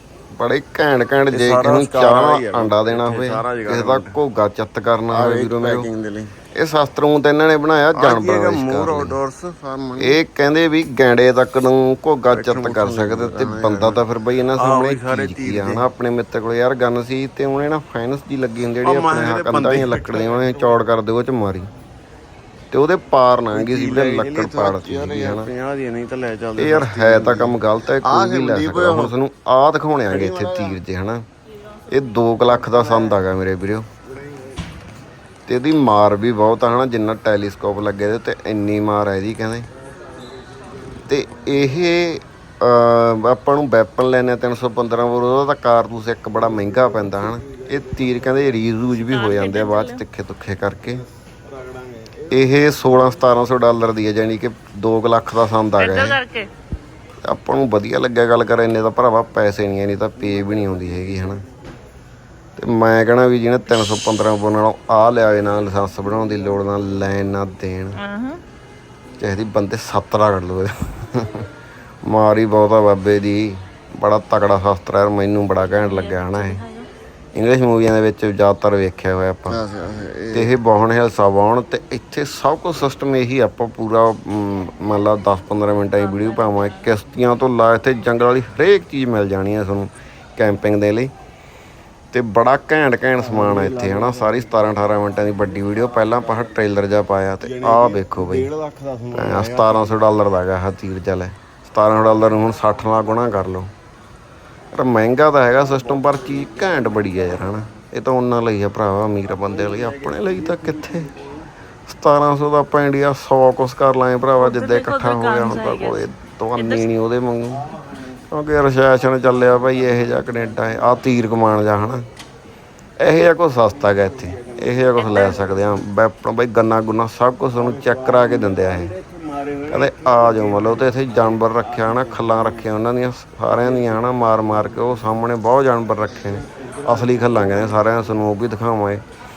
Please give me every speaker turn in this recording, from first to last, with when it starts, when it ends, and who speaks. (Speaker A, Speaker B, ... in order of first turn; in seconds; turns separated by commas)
Speaker A: 0.3-5.9, Speaker B: 1.3-4.2, Speaker B: 5.1-6.3, Speaker A: 6.5-9.2, Speaker B: 7.9-10.2, Speaker A: 10.0-21.7, Speaker B: 12.3-14.0, Speaker B: 14.6-15.8, Speaker B: 18.8-20.7, Speaker A: 22.7-25.5, Speaker B: 23.5-29.1, Speaker A: 26.6-31.2, Speaker B: 30.1-30.8, Speaker A: 31.9-33.9, Speaker B: 32.6-33.2, Speaker A: 35.5-39.7, Speaker A: 41.1-51.0, Speaker C: 48.9-50.0, Speaker B: 52.0-52.3, Speaker A: 52.3-56.2, Speaker C: 55.8-56.5, Speaker A: 57.2-61.4, Speaker A: 62.6-68.0, Speaker C: 68.0-68.4, Speaker A: 69.2-71.5, Speaker A: 72.0-76.6, Speaker C: 75.7-76.9, Speaker A: 77.4-79.7, Speaker B: 79.5-80.5, Speaker A: 80.3-91.1, Speaker C: 85.9-86.9, Speaker A: 92.1-98.5, Speaker B: 93.2-94.7, Speaker B: 97.4-100.0, Speaker A: 99.1-103.7, Speaker A: 104.7-111.2, Speaker A: 111.9-117.7, Speaker C: 114.4-116.0, Speaker C: 116.6-116.9, Speaker A: 118.3-122.1, Speaker A: 123.0-129.0, Speaker C: 125.0-125.5, Speaker B: 127.6-132.7, Speaker A: 129.7-139.0, Speaker B: 133.6-134.0, Speaker B: 136.8-137.7